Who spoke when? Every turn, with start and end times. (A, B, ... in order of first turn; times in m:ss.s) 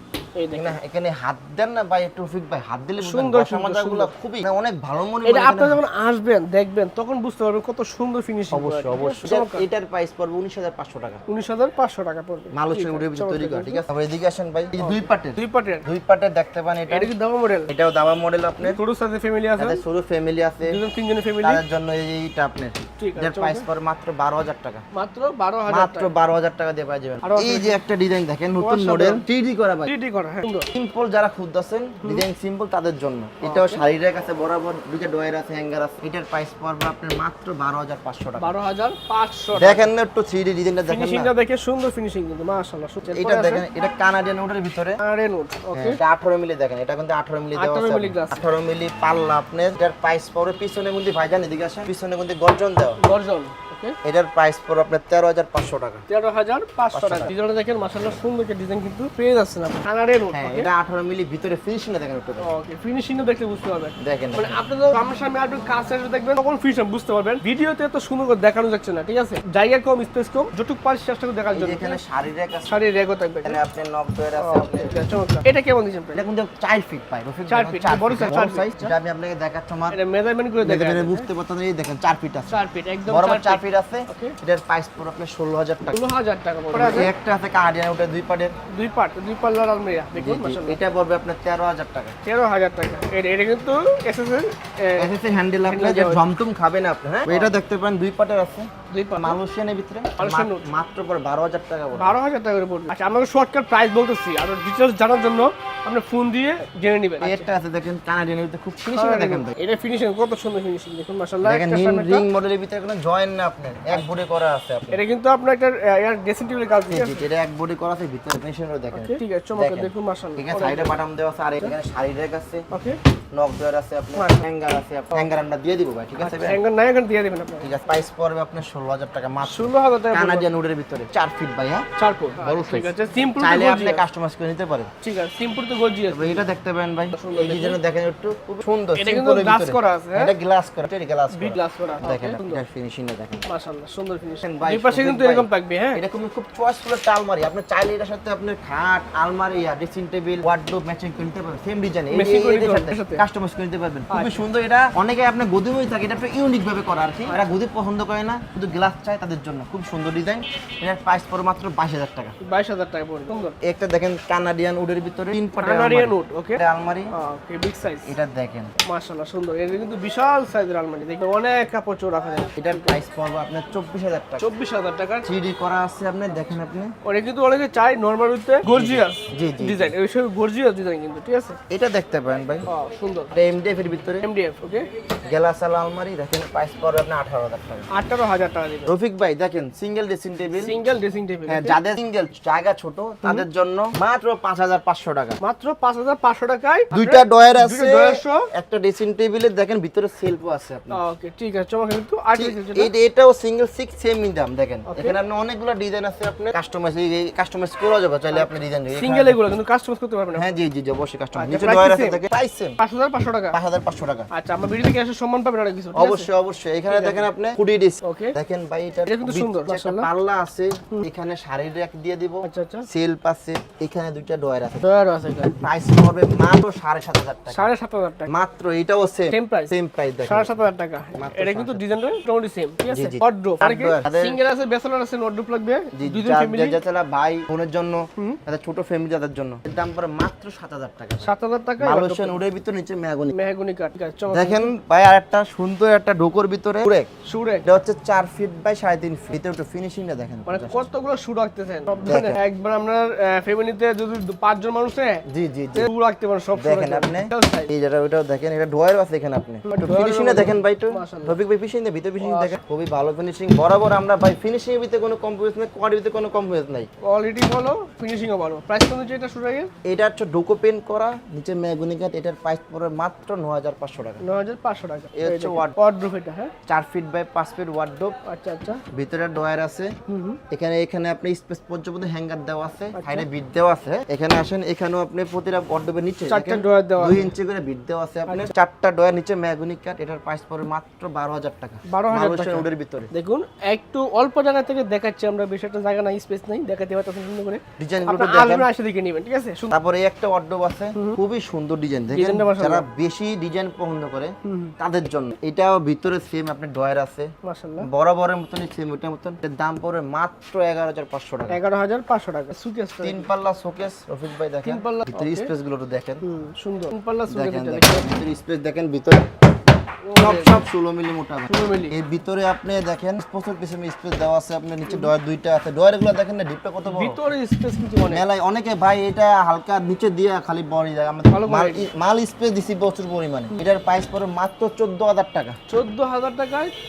0:00.4-0:00.8 A
0:00.5-0:05.8 B
0:03.0-0:04.1 A
0:05.2-0:09.6 A
0:08.5-0:11.2 B
0:11.3-0:13.8 A
0:12.5-0:17.1 B
0:14.8-0:15.8 A
0:16.9-0:17.7 A
0:17.7-0:18.8 B
0:18.6-0:19.8 A
0:19.6-0:20.8 B
0:20.6-0:21.6 A
0:21.4-0:24.8 B
0:23.0-0:23.6 A
0:24.9-0:26.1 A
0:25.7-0:29.9 B
0:27.2-0:27.8 A
0:28.6-0:29.2 A
0:29.9-0:30.7 A
0:30.7-0:38.5 B
0:33.4-0:33.8 A
0:38.4-0:39.9 A
0:39.5-0:41.3 B
0:40.9-0:43.6 A
0:43.1-0:45.0 B
0:45.0-0:46.0 A
0:45.7-0:53.0 B
0:47.5-0:48.4 A
0:53.0-0:54.0 A
0:54.0-0:56.0 B
0:56.1-1:00.7 A
0:56.9-0:57.3 B
1:00.3-1:02.5 B
1:02.4-1:12.0 A
1:04.0-1:04.6 B
1:11.5-1:12.8 B
1:12.7-1:13.6 A
1:13.4-1:14.9 B
1:14.4-1:16.2 A
1:16.1-1:20.0 B
1:17.5-1:18.9 A
1:19.9-1:21.3 A
1:20.6-1:26.0 B
1:22.5-1:24.3 A
1:25.9-1:27.1 A
1:26.7-1:28.5 B
1:28.7-1:30.8 A
1:30.2-1:32.1 B
1:32.2-1:35.1 A
1:35.0-1:42.2 B
1:35.6-1:36.2 A
1:37.3-1:37.5 A
1:38.9-1:39.4 A
1:40.2-1:40.7 A
1:41.9-1:47.5 A
1:47.2-1:49.5 B
1:48.9-1:52.2 A
1:51.4-1:55.0 B
1:54.9-1:57.2 A
1:56.9-2:02.7 B
1:58.9-2:01.0 A
2:02.7-2:03.0 A
2:03.3-2:06.6 B
2:04.1-2:04.4 A
2:06.2-2:07.7 A
2:07.6-2:14.9 B
2:09.4-2:10.5 A
2:12.0-2:14.0 A
2:15.0-2:16.5 A
2:16.1-2:23.4 B
2:17.1-2:17.8 A
2:19.0-2:20.3 A
2:21.3-2:22.6 A
2:23.5-2:26.0 A
2:24.4-2:42.3 B
2:32.1-2:33.2 A
2:34.1-2:34.4 A
2:42.4-2:43.6 A
2:43.6-2:47.1 B
2:45.6-2:46.6 A
2:47.1-2:48.1 A
2:48.0-2:48.7 B
2:48.8-2:52.9 A
2:52.6-2:54.5 B
2:54.4-2:55.2 A
2:55.2-2:56.9 B
2:57.0-3:01.6 A
2:58.7-2:59.9 B
3:01.7-3:02.7 B
3:02.7-3:03.3 A
3:03.3-3:04.3 B
3:04.2-3:04.9 A
3:05.2-3:07.9 B
3:07.9-3:08.9 A
3:08.8-3:10.8 B
3:10.6-3:11.8 A
3:11.5-3:15.4 B
3:15.4-3:18.5 A
3:16.9-3:21.0 B
3:20.9-3:22.9 A
3:22.3-3:29.4 B
3:24.9-3:25.2 A
3:28.3-3:30.5 A
3:30.3-3:32.8 B
3:31.4-3:32.2 A
3:32.8-3:33.6 A
3:33.5-3:34.3 B
3:34.3-3:36.3 A
3:35.9-3:44.9 B
3:36.9-3:37.3 A
3:38.0-3:38.4 A
3:39.0-3:40.1 A
3:42.4-3:42.8 A
3:44.8-3:45.6 A
3:45.5-3:47.7 B
3:47.5-3:48.3 A
3:48.3-3:50.6 B
3:49.3-3:56.8 A
3:51.1-3:51.9 B
3:52.9-3:54.4 B
3:55.9-4:03.4 B
4:01.2-4:02.4 A
4:03.3-4:04.7 A
4:04.3-4:07.1 B
4:07.2-4:07.6 A
4:07.6-4:10.8 B
4:10.5-4:15.2 A
4:12.0-4:12.4 B
4:15.2-4:15.9 B
4:15.7-4:17.7 A
4:16.6-4:26.9 B
4:19.6-4:21.4 A
4:22.2-4:22.6 A
4:27.0-4:29.7 A
4:29.8-4:34.2 B
4:34.2-4:36.5 A
4:35.1-4:35.7 B
4:36.7-4:38.1 B
4:38.2-4:38.8 A
4:38.9-4:39.9 B
4:40.1-4:40.4 A
4:40.5-4:53.1 B
4:42.9-4:43.3 A
4:46.3-4:47.3 A
4:51.9-4:59.7 A
4:57.8-4:58.6 B
4:59.7-5:11.6 B
5:02.1-5:02.8 A
5:04.4-5:04.7 A
5:07.4-5:07.9 A
5:11.5-5:13.3 A
5:13.0-5:16.2 B
5:14.6-5:15.5 A
5:16.2-5:18.0 A
5:17.3-5:19.3 B
5:20.0-5:20.6 A
5:20.2-5:27.2 B
5:21.5-5:21.9 A
5:26.8-5:28.2 A
5:28.0-5:35.6 B
5:31.3-5:31.9 A
5:35.7-5:36.7 A